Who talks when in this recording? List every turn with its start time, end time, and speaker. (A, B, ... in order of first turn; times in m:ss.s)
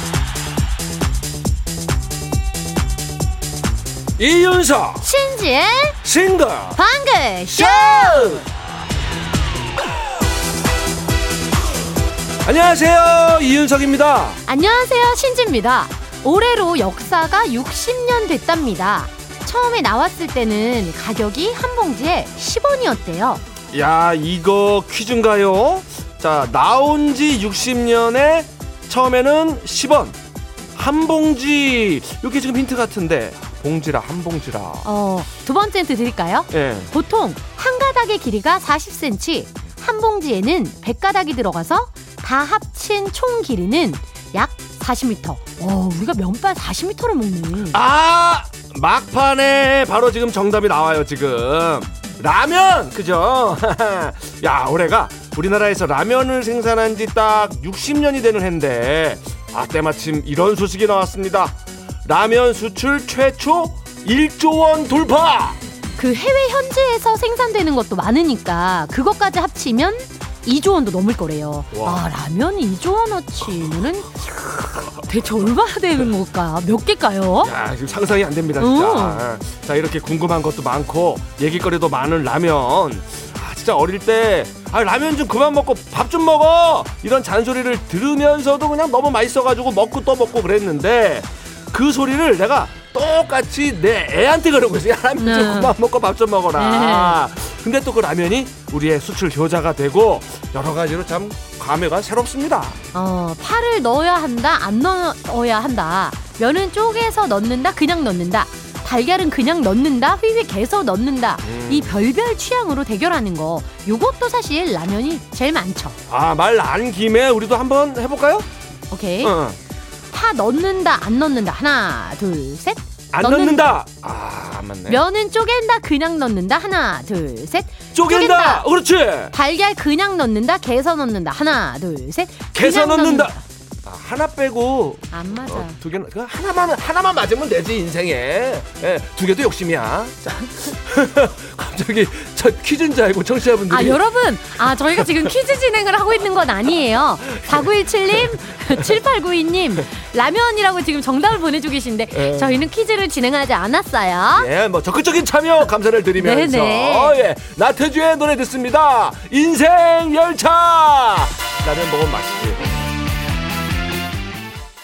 0:04.2-0:05.1 A
0:05.0-0:06.0 B
0:06.0-0:06.8 A
0:06.8-0:08.4 B
0:07.5-0:08.5 A
0:12.4-0:14.4 A
0:14.5-0:23.4 B
0:23.7-0:30.2 A
0:30.8-0:34.9 A
0:34.8-0:47.8 B
0:36.5-0:36.9 A
0:47.7-1:05.6 A
1:06.0-1:17.5 B
1:11.7-1:12.0 A
1:17.4-1:42.8 A
1:18.6-1:19.3 B
1:35.2-1:35.8 B
1:36.6-1:37.2 B
1:42.9-1:56.0 B
1:51.4-1:52.1 A
1:56.1-1:58.5 A
1:58.9-1:59.4 B
1:59.2-1:59.6 A
2:00.1-2:03.8 B
2:03.1-2:05.0 A
2:04.9-2:08.7 B
2:07.9-2:09.4 A
2:09.3-2:13.4 B
2:12.5-2:24.0 A
2:15.1-2:15.8 B
2:23.7-2:34.5 B
2:25.0-2:25.3 A
2:27.4-2:28.4 A
2:32.1-2:32.7 A
2:34.4-2:42.7 A
2:36.2-2:37.2 B